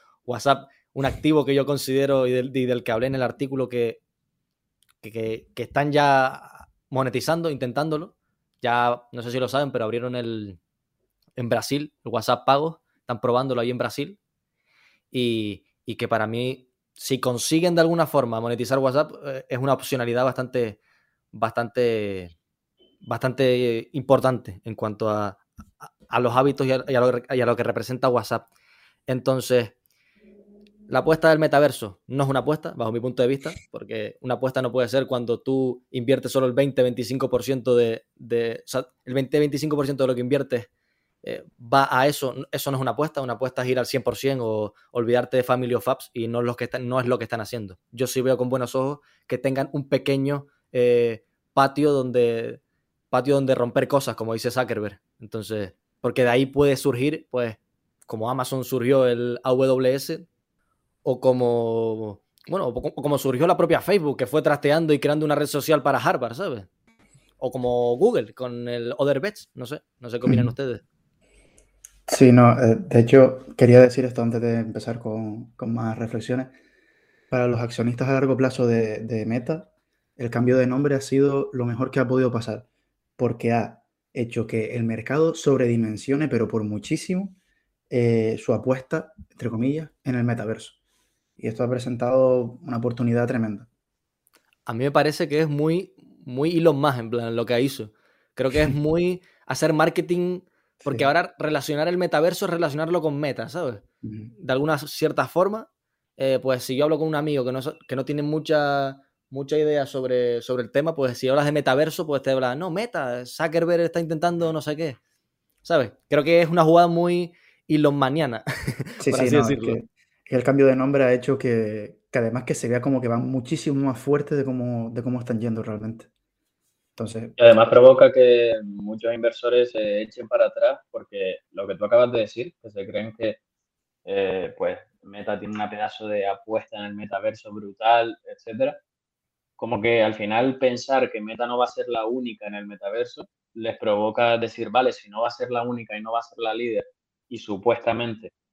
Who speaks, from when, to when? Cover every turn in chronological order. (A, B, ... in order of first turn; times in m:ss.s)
0:00.3-0:04.0 A
0:05.0-0:10.6 A
0:11.4-0:14.2 A
0:15.1-0:20.8 A
0:21.3-0:22.3 A
0:23.0-0:28.5 A
0:29.1-0:29.7 A
0:30.9-0:40.7 A
0:41.2-0:52.6 A
0:53.1-1:00.3 A
1:01.0-1:06.7 A
1:07.4-1:10.8 A
1:10.3-1:10.5 B
1:12.1-1:16.5 B
1:17.3-1:22.6 B
1:23.2-1:27.4 B
1:27.9-1:30.8 B
1:31.4-1:33.7 B
1:34.6-1:43.8 A
1:40.8-1:41.1 B
1:44.0-1:44.3 B
1:44.4-1:55.0 A
1:55.6-1:59.8 A
1:59.0-2:06.1 B
2:07.0-2:07.4 B
2:07.4-2:13.4 C
2:14.0-2:18.8 C
2:19.6-2:28.3 C